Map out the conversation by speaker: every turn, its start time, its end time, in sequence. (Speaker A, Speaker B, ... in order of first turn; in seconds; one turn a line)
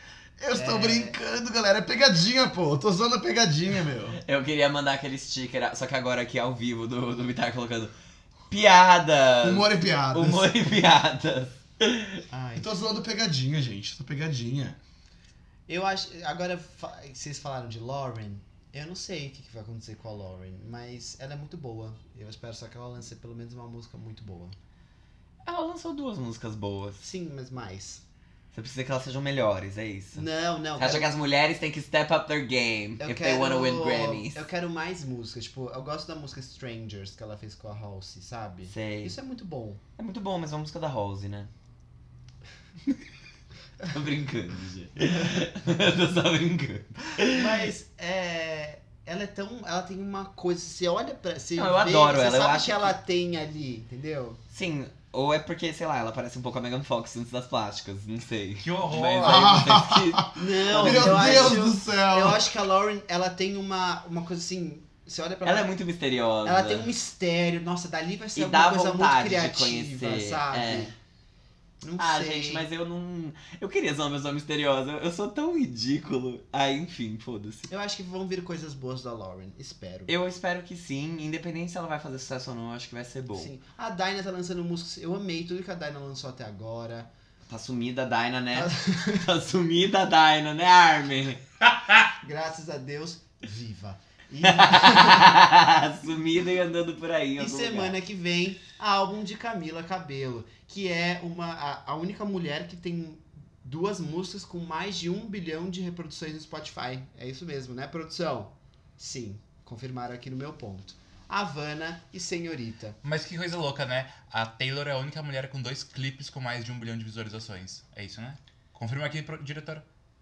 Speaker A: 0.4-4.2
Speaker B: 0.5-1.1
Speaker C: 4.2-7.9
Speaker C: 8.5-12.2
Speaker A: 9.4-10.5
Speaker B: 12.3-12.7
Speaker A: 12.6-14.8
Speaker B: 15.7-24.6
Speaker C: 25.4-27.0
Speaker B: 27.0-28.0
Speaker C: 28.5-30.2
Speaker B: 30.1-31.1
Speaker C: 30.8-34.5
Speaker B: 33.0-39.8
Speaker C: 38.7-39.1
Speaker C: 40.0-41.5
Speaker C: 43.9-47.5
Speaker B: 47.3-54.4
Speaker C: 51.5-53.0
Speaker C: 54.5-61.6
Speaker D: 58.6-59.6
Speaker A: 59.2-62.5
Speaker B: 60.3-65.7
Speaker C: 65.4-66.9
Speaker B: 66.4-70.9
Speaker C: 68.3-70.9
Speaker B: 71.8-72.7
Speaker C: 72.0-77.7
Speaker B: 77.7-80.1
Speaker C: 80.1-83.5
Speaker B: 83.3-87.1
Speaker C: 87.5-91.4
Speaker B: 88.5-89.3
Speaker B: 92.2-95.3
Speaker C: 94.4-98.0
Speaker B: 97.4-113.0
Speaker D: 113.0-119.8